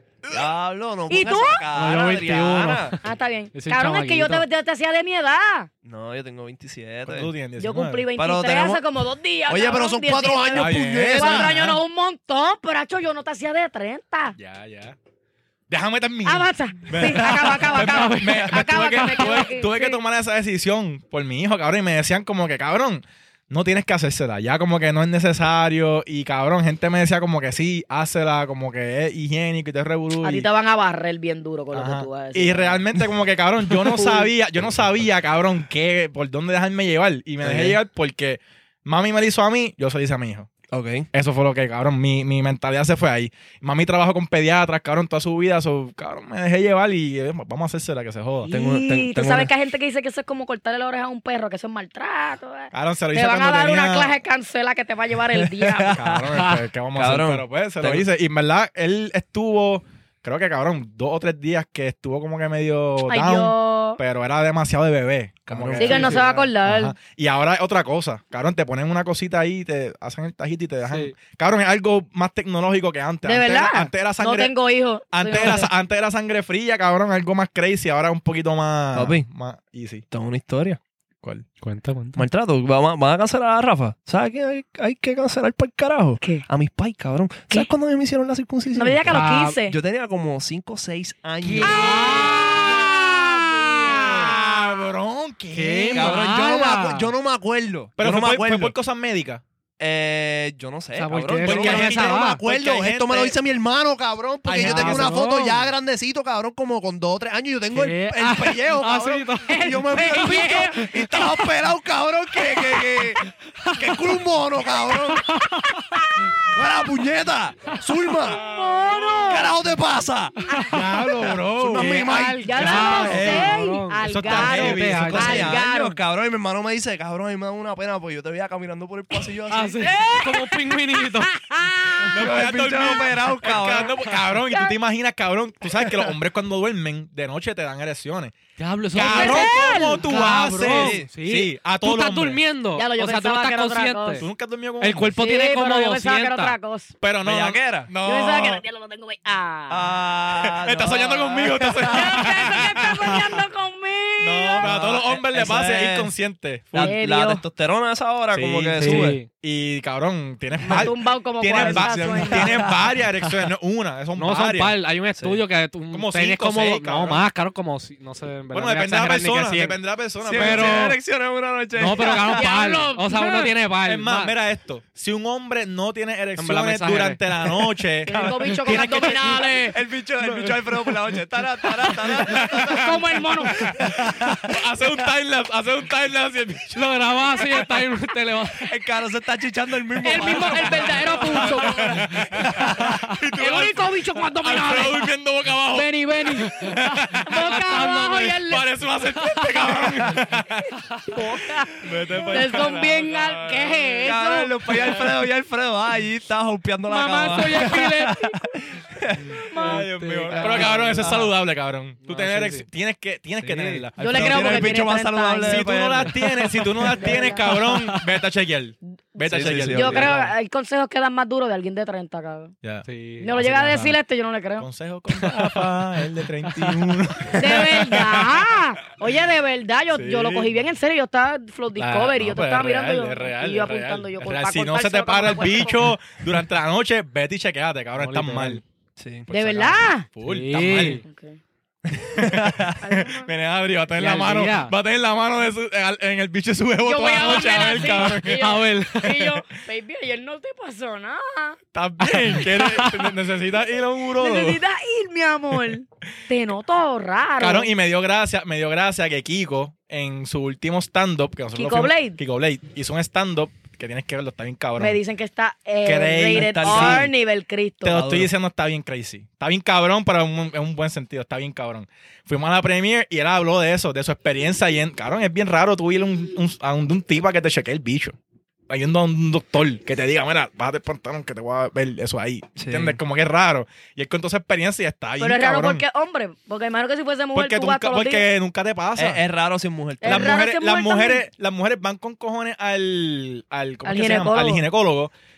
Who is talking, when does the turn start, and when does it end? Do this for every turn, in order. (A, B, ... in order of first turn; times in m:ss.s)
0:00.3-0:03.0 A
0:01.1-0:01.6 B
0:01.7-0:03.0 C
0:03.0-0:05.7 B
0:03.5-0:04.5 C
0:05.8-0:07.3 A
0:07.1-0:08.1 D
0:07.6-0:14.4 B
0:08.2-0:08.8 A
0:09.5-0:11.6 A
0:10.5-0:11.8 D
0:14.4-0:15.0 D
0:15.7-0:30.5 D
0:16.2-0:20.0 B
0:17.8-0:18.1 C
0:30.2-0:32.8 B
0:31.7-0:40.5 D
0:33.9-0:34.3 B
0:37.4-0:37.8 A
0:40.7-0:41.1 A
0:41.1-0:48.5 D
0:48.4-0:56.0 B
0:48.5-0:49.5 A
0:52.7-0:54.1 D
0:55.4-0:58.1 A
0:55.9-1:14.5 D
1:03.1-1:04.0 B
1:05.5-1:06.3 A
1:05.8-1:07.0 B
1:10.9-1:11.1 C
1:13.2-1:15.7 B
1:15.1-1:20.0 D
1:18.9-1:19.3 A
1:20.1-1:20.8 A
1:21.6-1:22.2 C
1:22.2-1:32.6 A
1:28.8-1:29.8 B
1:29.1-1:29.6 C
1:31.4-1:32.8 C
1:31.6-1:34.8 B
1:32.5-1:32.8 D
1:33.6-1:36.2 D
1:35.5-1:37.1 C
1:35.9-1:38.8 A
1:38.0-1:39.4 D
1:39.8-1:55.3 A
1:41.0-1:42.4 C
1:41.4-1:43.4 D
1:44.5-1:45.2 D
1:44.6-1:45.7 C
1:47.7-1:49.8 C
1:49.5-1:51.5 B
1:52.4-1:53.1 C
1:53.6-1:54.1 C
1:55.3-1:56.0 C
1:55.9-1:56.3 B
1:56.4-1:58.4 A
1:58.2-1:59.6 B
1:58.5-1:59.2 D
1:59.2-2:00.4 A
2:00.5-2:01.1 B
2:00.5-2:05.5 C
2:00.7-2:02.0 D
2:01.4-2:03.5 A
2:02.4-2:06.0 B
2:02.8-2:05.6 D
2:05.0-2:09.9 A
2:09.5-2:11.4 C
2:09.8-2:12.2 B
2:12.1-2:18.4 D
2:12.1-2:14.0 A
2:14.4-2:14.8 B
2:18.6-2:24.3 C
2:18.9-2:22.4 D
2:19.0-2:20.1 B
2:20.0-2:21.1 A
2:22.8-2:24.2 B
2:24.2-2:25.1 D
2:24.8-2:26.6 C
2:25.1-2:26.9 B
2:27.0-2:28.6 D
2:27.2-2:27.9 A
2:28.0-2:29.9 B
2:29.7-2:32.3 A
2:30.4-2:33.2 D
2:31.9-2:34.7 B
2:34.2-2:36.9 D
2:34.6-2:36.1 A
2:36.7-2:39.2 A
2:36.8-2:37.4 B
2:38.3-2:44.8 D
2:38.8-2:39.3 C
2:40.7-2:42.7 B
2:41.5-2:42.8 A
2:44.2-2:51.0 C
2:45.2-2:45.4 A
2:45.9-2:47.2 D
2:48.5-2:50.9 D
2:50.2-2:52.5 A
2:51.8-2:54.4 C
2:52.0-2:53.5 B
2:53.8-2:59.5 D
2:56.4-2:57.7 C
2:58.1-2:59.8 B
2:58.1-2:59.2 A
2:59.7-3:04.4 A
3:00.3-3:00.6 D
3:01.8-3:06.9 D
3:02.7-3:03.6 B
3:06.8-3:08.7 C
3:08.6-3:13.0 A
3:10.0-3:12.4 B
3:10.6-3:12.0 C
3:11.3-3:17.4 D
3:13.4-3:15.1 B
3:15.7-3:18.7 B
3:16.8-3:18.4 C
3:18.3-3:20.8 D
3:19.8-3:20.2 C
3:21.1-3:24.8 B
3:21.7-3:24.1 D
3:24.0-3:31.3 A
3:24.7-3:25.2 D
3:26.9-3:28.5 B
3:27.2-3:27.9 C
3:29.3-3:31.3 C
3:29.4-3:29.9 B
3:29.5-3:34.9 D
3:32.0-3:32.7 C
3:33.4-3:33.9 C
3:33.5-3:36.5 A
3:34.0-3:35.7 B
3:35.4-3:40.3 D
3:36.8-3:38.1 C
3:36.9-3:37.5 B
3:39.2-3:40.2 A
3:39.7-3:42.5 B
3:42.6-3:44.0 D
3:42.8-3:43.8 C
3:43.2-3:44.7 B
3:44.6-3:48.5 D
3:45.1-3:45.7 C
3:46.5-3:47.4 C
3:47.4-3:55.9 B
3:49.9-3:50.6 D
3:51.8-3:58.6 D
3:58.0-3:58.6 C
3:59.0-3:59.3 A
3:59.3-4:01.0 D
3:59.3-4:00.1 B
4:00.2-4:01.0 C
4:00.9-4:01.4 B
4:01.9-4:02.8 A
4:02.0-4:08.5 D
4:02.8-4:03.3 B
4:04.0-4:04.7 C
4:06.8-4:11.6 B
4:07.7-4:09.4 C
4:11.7-4:14.6 D
4:12.0-4:13.1 C
4:14.1-4:17.7 B
4:17.4-4:25.0 D
4:21.6-4:22.2 B
4:24.8-4:28.0 B
4:25.8-4:27.1 D
4:26.3-4:27.1 A
4:27.8-4:38.2 D
4:27.9-4:28.3 A
4:38.7-4:45.8 D
4:42.6-4:43.0 A
4:45.2-4:48.3 B
4:47.4-4:49.2 D
4:49.0-4:50.4 A
4:50.0-4:51.2 B
4:50.0-4:55.1 D
4:53.8-4:54.6 B